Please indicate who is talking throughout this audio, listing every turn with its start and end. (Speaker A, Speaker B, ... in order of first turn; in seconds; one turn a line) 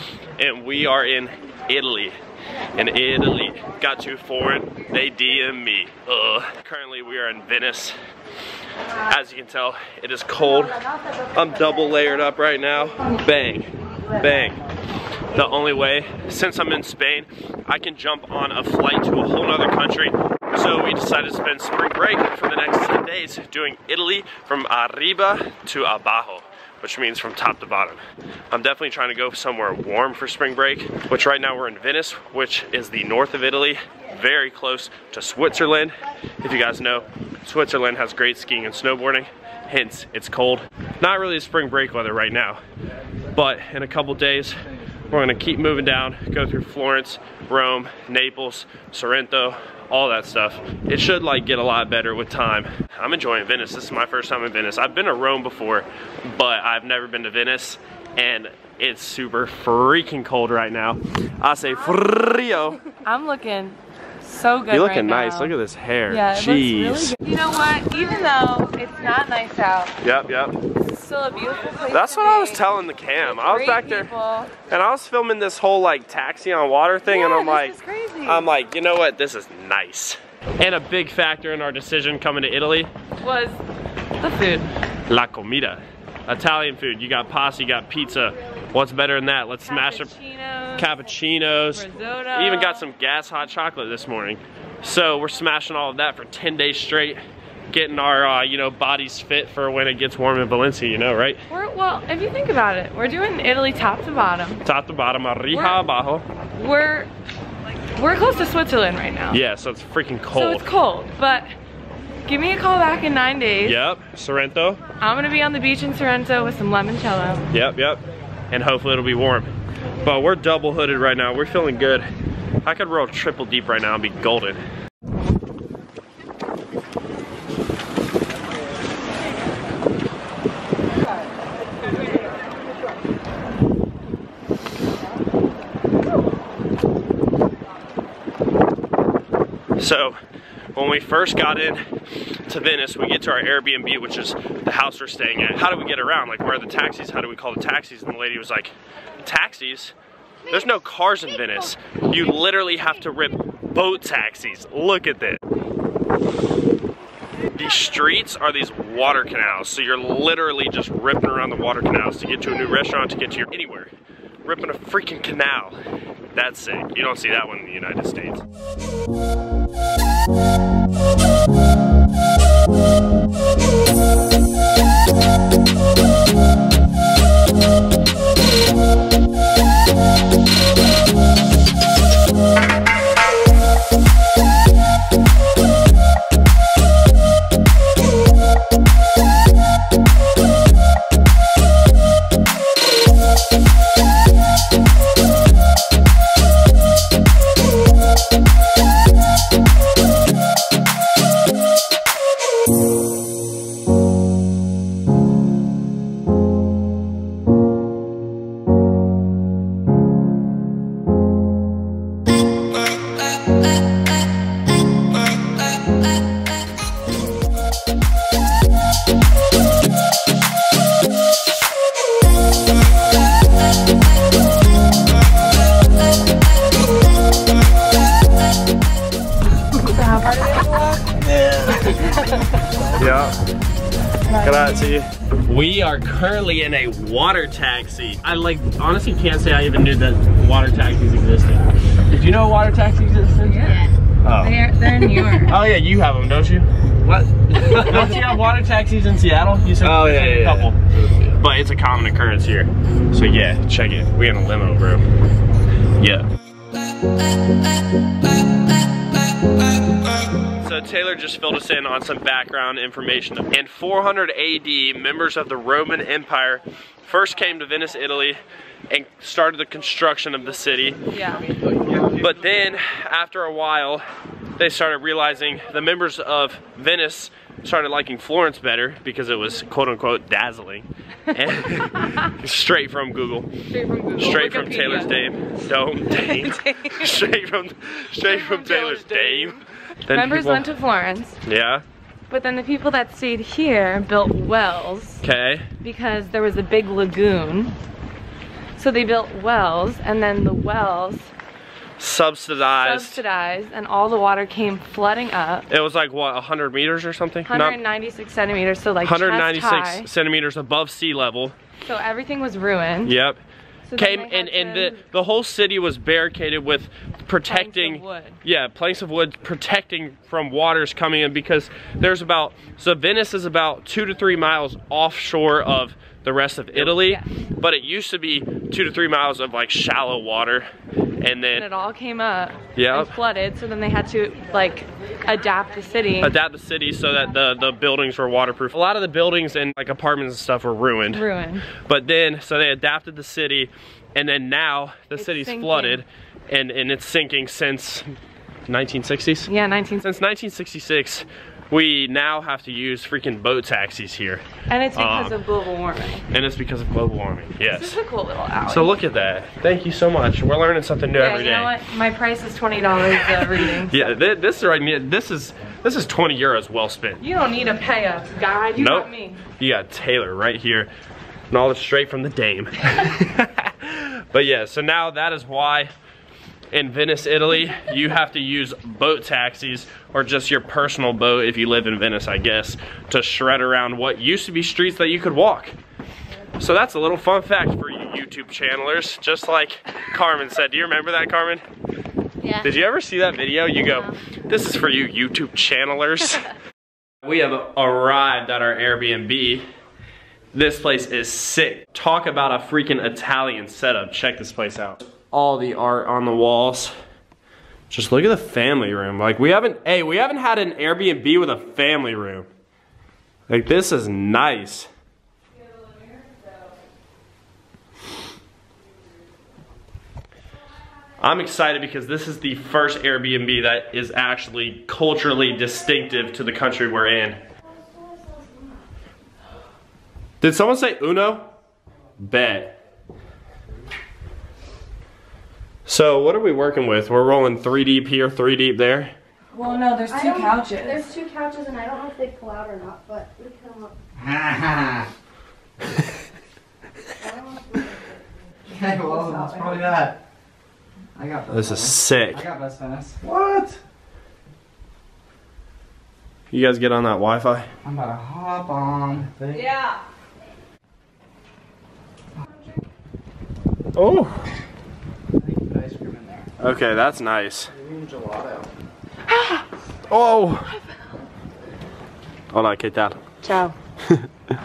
Speaker A: 0.4-2.1
Speaker A: 2.7-8.0
Speaker A: 9.0-14.6
Speaker A: 15.3-42.6
Speaker A: 43.3-62.8
Speaker B: 62.9-65.5
Speaker A: 64.7-67.2
Speaker B: 66.1-69.9
Speaker A: 70.0-70.6
Speaker B: 70.7-72.6
Speaker A: 71.9-82.9
Speaker B: 73.2-74.5
Speaker B: 77.0-78.5
Speaker B: 83.2-83.6
Speaker B: 84.2-84.7
Speaker A: 85.1-90.1
Speaker B: 89.6-91.0
Speaker A: 90.8-97.2
Speaker B: 91.7-92.9
Speaker A: 97.7-101.4
Speaker B: 101.5-104.6
Speaker A: 104.6-106.2
Speaker B: 105.5-105.8
Speaker B: 106.5-107.1
Speaker B: 107.9-109.4
Speaker A: 109.3-110.8
Speaker B: 110.3-111.5
Speaker B: 112.2-113.8
Speaker A: 113.6-114.8
Speaker B: 115.0-117.5
Speaker A: 117.5-119.5
Speaker A: 120.0-122.1
Speaker A: 122.6-124.6
Speaker A: 139.8-140.2
Speaker A: 140.7-141.8
Speaker A: 142.4-149.9
Speaker A: 150.5-155.4
Speaker A: 157.5-163.9
Speaker A: 164.4-165.8
Speaker A: 166.3-168.4
Speaker B: 229.8-231.1
Speaker A: 231.3-232.0
Speaker A: 232.9-233.3
Speaker B: 234.2-234.9
Speaker A: 234.4-255.0
Speaker B: 243.4-245.6
Speaker B: 250.0-250.5
Speaker A: 256.0-256.3
Speaker A: 260.5-271.0
Speaker B: 271.1-271.4
Speaker A: 271.9-274.0
Speaker A: 274.6-283.5
Speaker B: 281.9-282.2
Speaker B: 283.7-285.1
Speaker A: 284.2-290.7
Speaker B: 286.1-287.2
Speaker B: 288.2-291.4
Speaker A: 291.4-291.8
Speaker B: 292.3-295.2
Speaker A: 295.2-295.7
Speaker B: 295.8-297.7
Speaker B: 298.8-301.3
Speaker A: 302.0-303.2
Speaker B: 302.6-305.7
Speaker A: 305.7-307.8
Speaker B: 307.5-310.1
Speaker A: 309.0-311.5
Speaker B: 311.8-313.1
Speaker A: 313.0-313.4
Speaker B: 313.9-315.0
Speaker A: 313.9-330.7
Speaker B: 317.5-318.4
Speaker B: 326.7-327.3
Speaker A: 331.2-331.6
Speaker B: 331.5-336.3
Speaker A: 332.7-333.1
Speaker A: 336.2-341.2
Speaker B: 341.1-341.7
Speaker A: 341.7-348.2
Speaker B: 345.1-346.0
Speaker A: 348.7-349.5
Speaker B: 349.5-350.1
Speaker A: 350.0-354.4
Speaker B: 354.7-356.2
Speaker A: 354.9-355.3
Speaker A: 356.3-358.0
Speaker B: 357.7-358.9
Speaker A: 358.6-361.7
Speaker B: 361.1-364.1
Speaker A: 363.4-367.2
Speaker B: 367.2-369.4
Speaker A: 368.8-370.9
Speaker A: 371.5-375.9
Speaker A: 376.7-385.8
Speaker A: 386.6-391.6
Speaker A: 392.5-396.5
Speaker A: 397.2-399.6
Speaker A: 400.5-406.9
Speaker A: 407.9-412.5
Speaker A: 413.5-414.9
Speaker A: 421.2-427.4
Speaker A: 430.4-431.5
Speaker A: 432.2-432.8
Speaker A: 435.9-439.1
Speaker B: 439.5-441.1
Speaker C: 440.1-443.9
Speaker D: 444.2-445.1
Speaker C: 447.2-448.1
Speaker D: 448.7-450.2
Speaker C: 448.8-449.8
Speaker D: 451.1-453.3
Speaker A: 451.5-452.4
Speaker A: 453.3-453.6
Speaker A: 456.5-457.7
Speaker D: 457.8-459.3
Speaker A: 463.9-464.4
Speaker D: 465.4-466.5
Speaker A: 466.6-467.7
Speaker D: 467.7-468.7
Speaker A: 470.1-470.7
Speaker A: 472.5-473.2
Speaker B: 473.4-473.7